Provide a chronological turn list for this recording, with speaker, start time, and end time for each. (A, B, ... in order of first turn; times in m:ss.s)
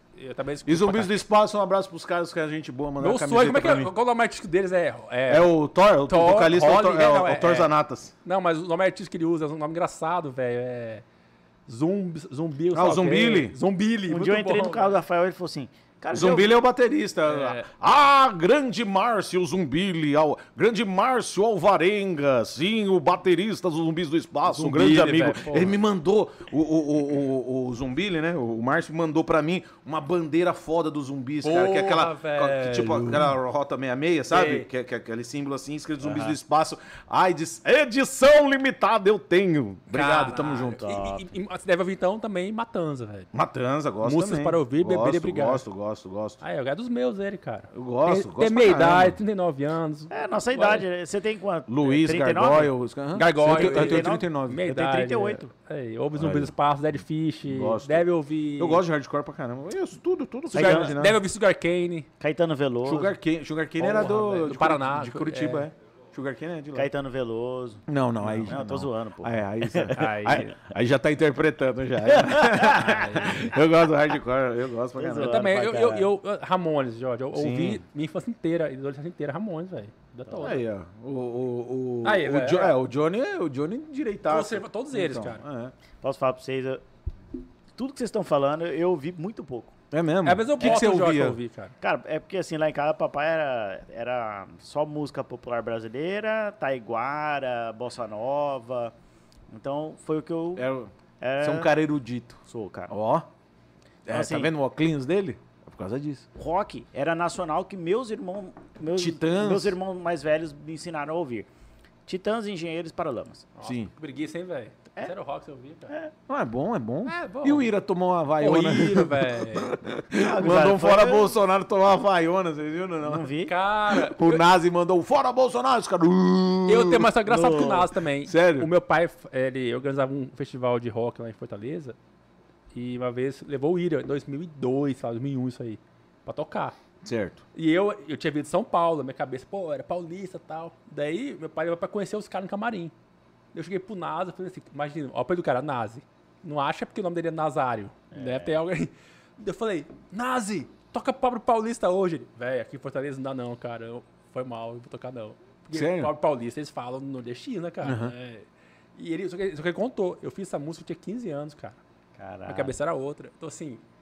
0:00.2-0:01.2 A
0:00.6-0:03.9 B
0:03.0-0:07.7 A
0:05.3-0:08.1 B
0:08.2-0:11.0 A
0:11.7-0:15.0 A
0:12.7-0:13.6 B
0:14.1-0:16.6 C
0:16.1-0:40.8 B
0:17.2-0:17.7 A
0:24.5-0:25.8 A
0:31.4-0:33.4 A
0:34.3-0:34.7 A
0:39.9-0:43.3 A
0:40.8-0:41.3 C
0:43.3-0:46.4 B
0:44.0-0:45.6 A
0:46.4-0:50.8 A
0:47.7-0:49.2 B
0:50.1-0:52.7 C
0:51.7-0:54.6 B
0:53.1-0:58.8 A
0:53.4-0:55.5 C
0:56.1-0:56.5 B
0:57.5-0:58.0 B
0:58.6-1:01.2 B
1:00.5-1:02.1 A
1:00.5-1:00.9 C
1:02.2-1:03.2 C
1:02.8-1:06.9 B
1:03.8-1:05.7 A
1:06.7-1:07.8 C
1:07.9-1:15.4 B
1:08.2-1:08.5 A
1:08.4-1:10.0 C
1:10.0-1:10.5 A
1:12.0-1:13.4 C
1:12.7-1:13.4 A
1:15.0-1:16.1 C
1:15.2-1:20.6 A
1:17.3-1:17.8 B
1:20.2-1:20.5 C
1:20.4-1:25.7 B
1:22.0-1:22.8 A
1:24.3-1:25.4 A
1:26.0-1:26.8 C
1:27.8-1:29.7 C
1:29.9-1:31.4 B
1:30.2-1:31.7 A
1:31.8-1:38.9 C
1:39.5-1:40.7 C
1:40.5-1:43.3 B
1:41.2-1:41.7 C
1:42.4-1:42.9 C
1:44.0-1:46.3 B
1:44.1-1:44.5 C
1:46.4-1:51.5 C
1:48.9-1:49.8 B
1:52.0-1:53.4 C
1:53.6-1:55.9 A
1:53.6-1:53.9 B
1:56.3-2:03.3 B
1:57.0-1:57.7 A
1:58.4-1:59.8 A
2:00.1-2:01.3 C
2:03.0-2:03.5 C
2:03.4-2:04.4 A
2:03.9-2:07.2 B
2:06.6-2:12.0 A
2:07.2-2:07.9 C
2:08.2-2:08.7 B
2:12.7-2:16.8 A
2:17.0-2:17.4 B
2:17.5-2:22.9 A
2:23.5-2:41.8 A
2:28.1-2:28.6 C
2:35.7-2:36.1 B
2:37.8-2:38.1 B
2:42.2-2:42.8 C
2:42.5-2:43.8 A